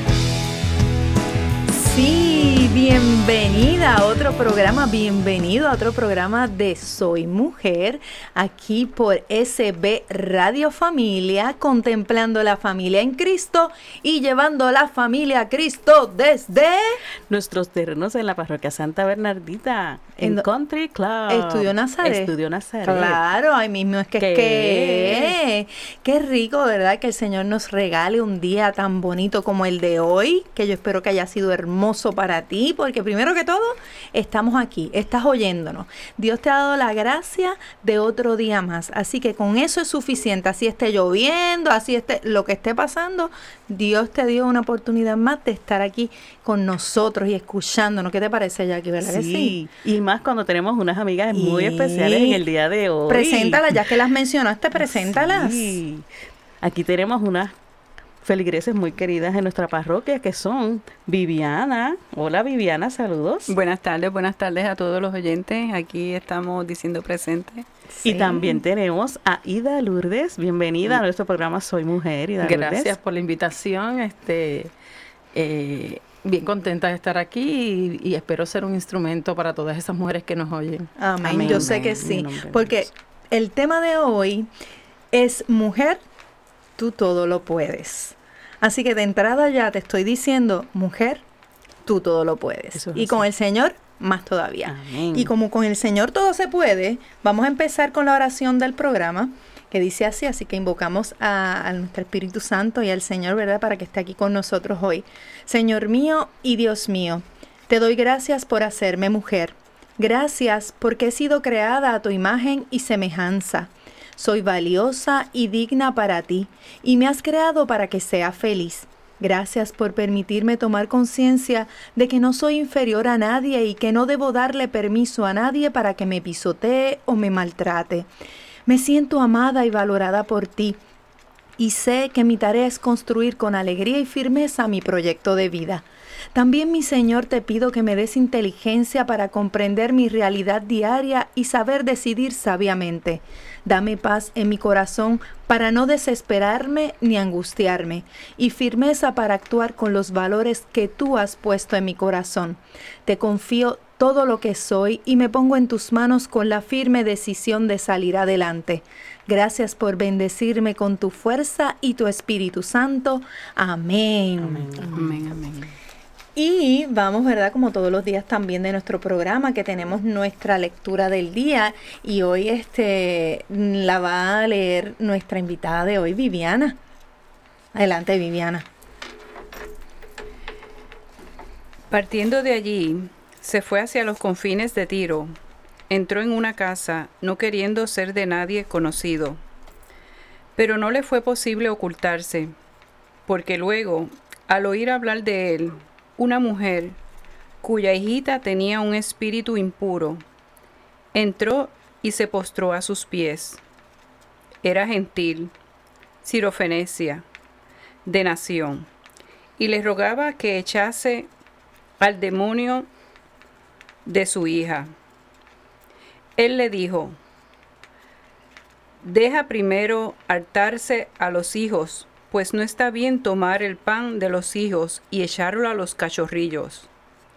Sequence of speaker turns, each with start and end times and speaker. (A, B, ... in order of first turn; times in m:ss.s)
0:01.7-0:17.0 A
0:17.3-0:23.2 B
0:21.3-0:22.3 A
0:22.8-0:49.6 A
0:24.2-0:25.4 B
0:49.0-0:53.6 B
0:51.3-0:52.4 A
0:53.1-0:55.8 A
0:54.7-0:56.0 B
0:56.6-0:57.5 B
0:58.2-1:03.5 B
1:03.5-1:07.6 C
1:07.9-1:08.6 A
1:08.0-1:12.9 B
1:12.4-1:14.7 D
1:15.3-1:21.8 D
1:21.0-1:24.5 A
1:21.2-1:22.8 B
1:25.1-1:26.0 A
1:26.8-1:31.2 A
1:31.8-2:08.1 A
1:32.7-1:33.2 B
1:34.6-1:35.3 B
2:08.7-2:10.8 A
2:11.6-2:45.1 A
2:44.4-2:45.0 B
2:44.9-2:45.7 C
2:46.4-2:56.8 A
2:57.7-2:58.6 A
3:01.9-3:05.3 C
3:05.9-3:09.4 C
3:10.6-3:12.5 C
3:13.3-3:17.0 C
3:17.6-3:20.2 C
3:21.1-3:23.6 C
3:24.6-3:25.5 C
3:26.2-3:27.2 C
3:28.0-3:28.9 C
3:29.6-3:31.3 C
3:32.0-3:32.9 C
3:34.0-3:34.9 C
3:36.4-3:37.2 C
3:39.0-3:46.9 C